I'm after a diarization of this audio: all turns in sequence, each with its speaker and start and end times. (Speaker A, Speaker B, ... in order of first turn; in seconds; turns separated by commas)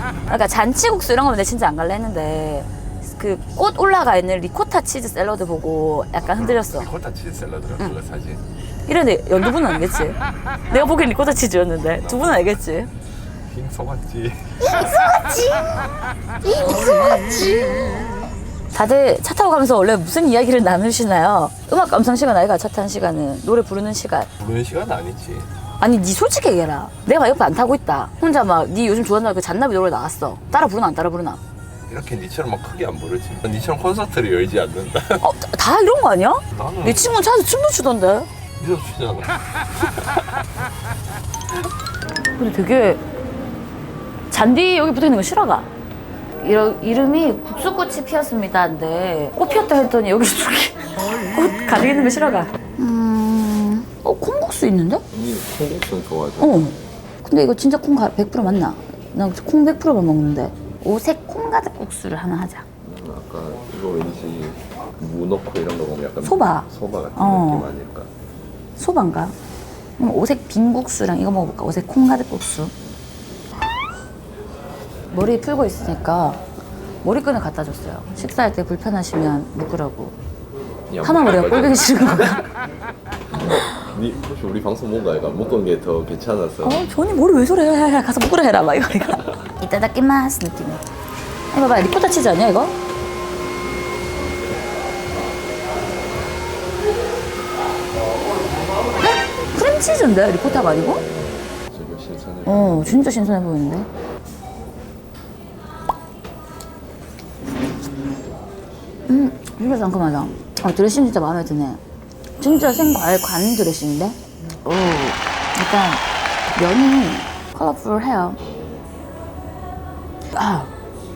Speaker A: 0.3-6.9, Speaker B: 6.2-8.4, Speaker A: 8.8-10.2, Speaker A: 10.7-12.9, Speaker B: 11.8-12.6, Speaker B: 13.4-14.7, Speaker A: 14.6-15.8, Speaker A: 16.4-17.9, Speaker A: 18.7-24.3, Speaker B: 24.4-25.5, Speaker A: 25.8-31.4, Speaker B: 31.9-35.3, Speaker A: 35.2-38.3, Speaker B: 36.5-37.1, Speaker B: 38.6-39.4, Speaker A: 42.4-43.0, Speaker A: 44.3-45.7, Speaker A: 46.4-55.0, Speaker B: 55.1-56.7, Speaker A: 56.4-62.6, Speaker B: 62.8-68.1, Speaker A: 66.2-67.7, Speaker A: 68.8-69.3, Speaker A: 70.0-72.7, Speaker A: 75.1-76.4, Speaker A: 77.0-80.2, Speaker B: 80.9-82.4, Speaker A: 81.0-82.5, Speaker B: 83.3-86.8, Speaker A: 83.5-83.8, Speaker A: 86.6-90.8, Speaker A: 91.5-92.8, Speaker A: 99.0-101.0, Speaker B: 100.6-103.1, Speaker A: 102.5-103.9, Speaker A: 109.1-111.8, Speaker A: 112.4-116.0, Speaker A: 116.5-118.4, Speaker B: 118.4-118.9, Speaker A: 120.3-120.7